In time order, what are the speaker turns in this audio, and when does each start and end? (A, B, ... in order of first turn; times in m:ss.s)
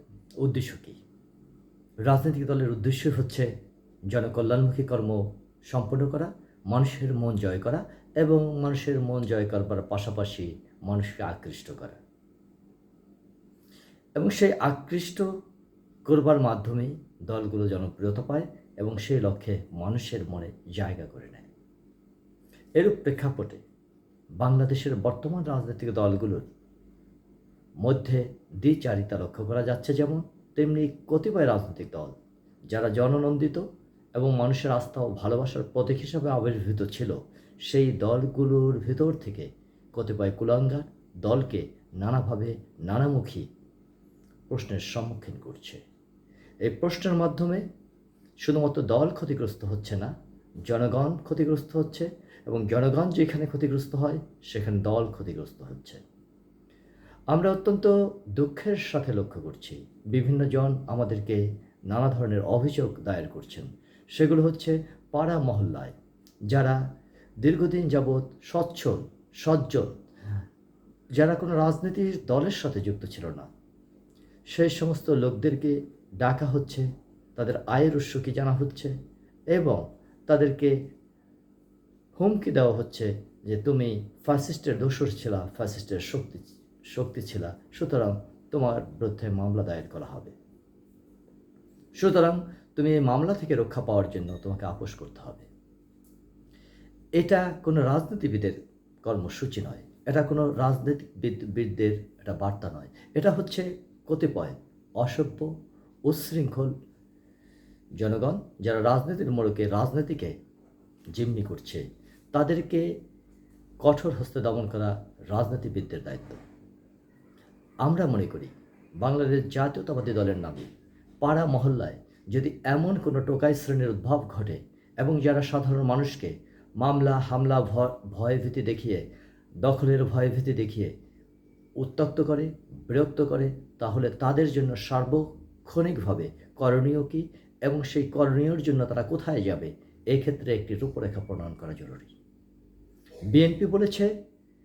0:00.4-0:01.0 A
0:02.0-0:03.5 A
0:04.1-0:12.0 A
0:14.2-0:15.3 A
0:16.1-0:21.5 A
0:22.8-0:23.6 A
0:24.4-0:26.5 A
0:27.8-0:32.1 A
0:32.7-0:33.6 A
0:34.2-0:43.5 A
0:44.5-0:45.8 A
0:46.6-0:47.6 A
0:48.4-0:50.2 A
0:50.7-0:56.0 A
0:57.3-1:06.0 A
1:06.5-1:06.8 A
1:07.4-1:10.0 A
1:11.2-1:13.5 A
1:14.5-1:18.9 A
1:19.5-1:20.8 A
1:22.2-1:30.3 A
1:32.0-1:35.5 A
1:37.2-1:45.5 A
1:46.1-1:46.7 A
1:48.0-1:50.3 A
1:51.1-1:52.9 A
1:53.8-1:56.4 A
1:57.8-2:00.7 A
2:01.2-2:09.0 A
2:09.6-2:10.9 A
2:11.8-2:22.1 A
2:23.3-2:24.1 A